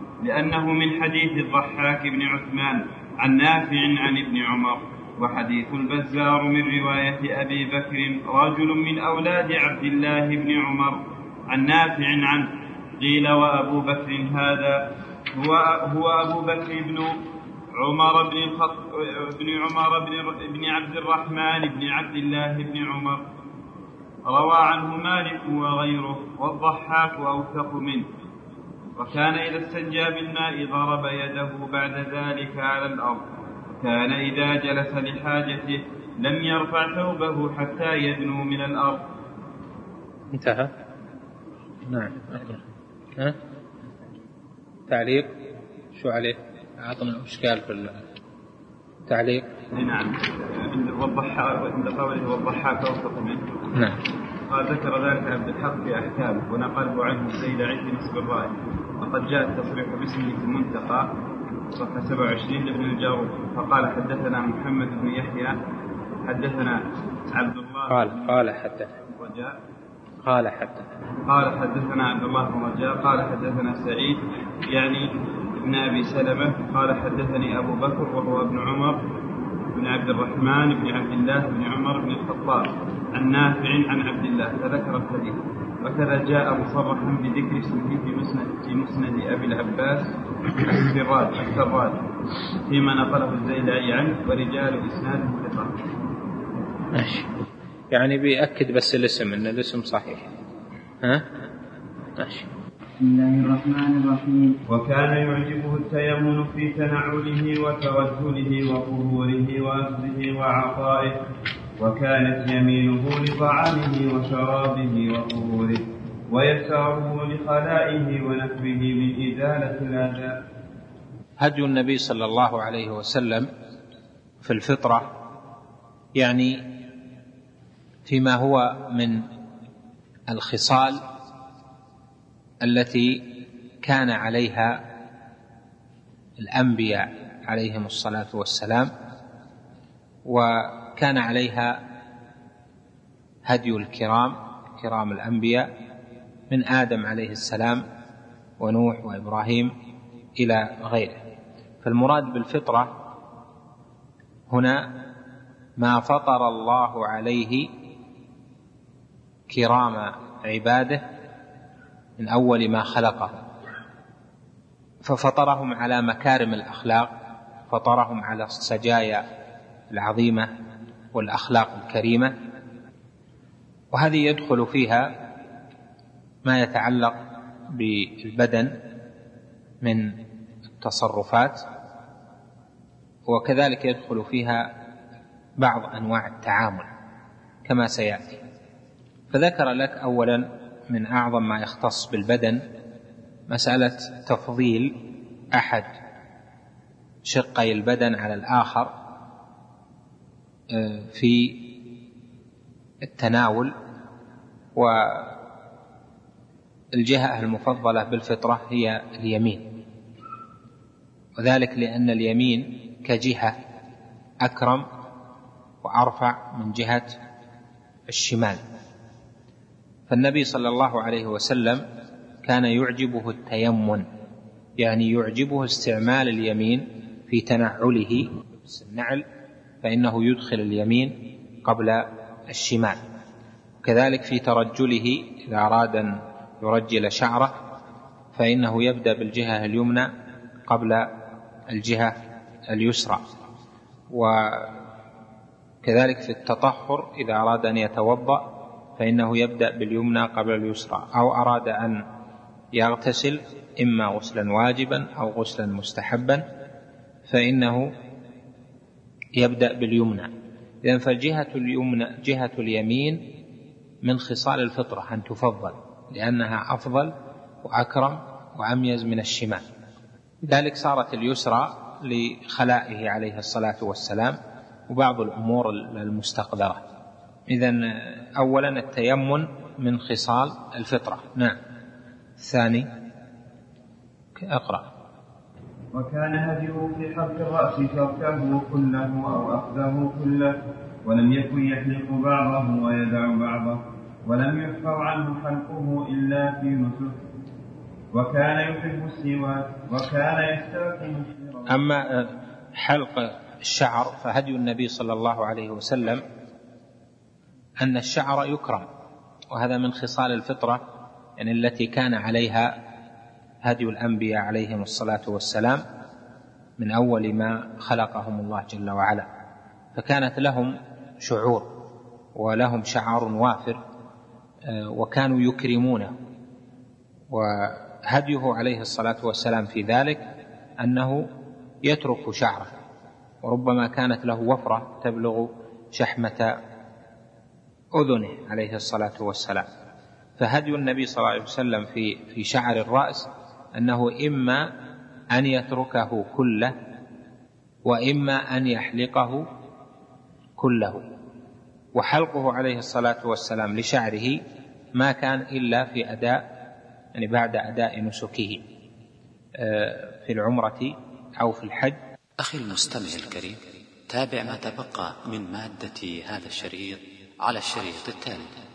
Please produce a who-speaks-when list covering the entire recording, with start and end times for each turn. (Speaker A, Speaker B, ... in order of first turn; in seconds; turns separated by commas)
Speaker A: 0.2-17.2, Speaker A: 17.7-23.2, Speaker A: 24.2-28.1, Speaker A: 28.9-33.2, Speaker A: 33.8-39.1, Speaker B: 40.3-40.7, Speaker B: 41.9-42.6, Speaker B: 44.9-45.3, Speaker B: 46.0-48.0, Speaker B: 49.1-49.5, Speaker A: 49.7-53.5, Speaker B: 53.7-54.0, Speaker A: 54.5-61.1, Speaker A: 61.7-65.6, Speaker A: 66.2-68.4, Speaker B: 67.9-69.0, Speaker A: 69.1-69.6, Speaker B: 70.2-70.9, Speaker A: 71.2-79.0, Speaker A: 79.7-92.0, Speaker A: 92.7-95.8, Speaker B: 96.9-97.3, Speaker B: 97.9-100.3, Speaker B: 101.0-101.3, Speaker B: 102.2-102.5, Speaker A: 103.0-111.2, Speaker A: 111.8-120.4, Speaker B: 121.4-123.5, Speaker B: 124.4-125.1, Speaker B: 126.2-126.6, Speaker B: 128.1-129.2, Speaker B: 130.3-131.0, Speaker B: 132.6-134.8, Speaker B: 136.4-138.9, Speaker B: 140.2-141.8, Speaker B: 143.4-145.7, Speaker B: 146.5-147.8, Speaker B: 148.6-149.7, Speaker B: 150.4-151.2, Speaker B: 151.8-152.9, Speaker B: 154.5-154.9, Speaker B: 155.8-157.7, Speaker B: 159.5-161.0, Speaker B: 162.2-163.4, Speaker B: 165.0-167.1, Speaker B: 167.7-169.2, Speaker B: 169.9-170.5, Speaker B: 171.1-172.3, Speaker B: 173.9-175.1, Speaker B: 176.4-177.2, Speaker B: 177.7-178.7, Speaker B: 179.8-180.1, Speaker B: 180.8-181.6, Speaker B: 183.3-184.7, Speaker B: 185.6-186.9, Speaker B: 187.7-188.4, Speaker B: 189.3-192.6, Speaker B: 193.5-194.9, Speaker B: 195.5-195.9, Speaker B: 197.2-198.9, Speaker B: 200.7-201.7, Speaker B: 203.0-203.7, Speaker B: 204.8-205.4, Speaker B: 206.9-209.6, Speaker B: 211.4-213.6, Speaker B: 214.4-214.8, Speaker B: 215.8-217.2, Speaker B: 218.1-218.6, Speaker B: 220.1-221.8, Speaker B: 222.4-224.1, Speaker B: 224.8-229.2, Speaker B: 229.8-233.0, Speaker B: 233.8-237.6, Speaker B: 238.3-240.1, Speaker B: 240.7-241.1, Speaker B: 241.7-242.1, Speaker B: 242.7-243.2, Speaker B: 244.1-244.8, Speaker B: 245.8-248.4, Speaker B: 249.0-252.0, Speaker B: 252.7-256.4, Speaker B: 257.3-257.9, Speaker B: 259.4-260.3, Speaker B: 260.8-263.2, Speaker B: 264.0-269.6, Speaker B: 270.4-274.4, Speaker B: 274.9-276.8, Speaker B: 277.5-281.6, Speaker B: 282.4-282.9, Speaker B: 284.4-284.9, Speaker A: 285.9-297.2, Speaker A: 298.1-301.8, Speaker B: 301.7-306.2, Speaker B: 307.8-308.9, Speaker B: 309.5-310.8, Speaker B: 311.4-312.7, Speaker B: 313.6-315.8, Speaker B: 316.8-319.3, Speaker B: 319.9-321.7, Speaker B: 322.4-323.8, Speaker B: 324.7-326.1, Speaker B: 327.3-330.2, Speaker B: 330.8-331.3, Speaker B: 331.8-332.7, Speaker B: 333.4-336.5, Speaker B: 337.9-339.7, Speaker B: 340.4-344.7, Speaker B: 345.3-346.7, Speaker B: 347.9-349.5, Speaker B: 350.6-351.0, Speaker B: 351.9-354.4, Speaker B: 354.9-356.4, Speaker B: 357.1-358.6, Speaker B: 359.6-362.0, Speaker C: 362.4-368.5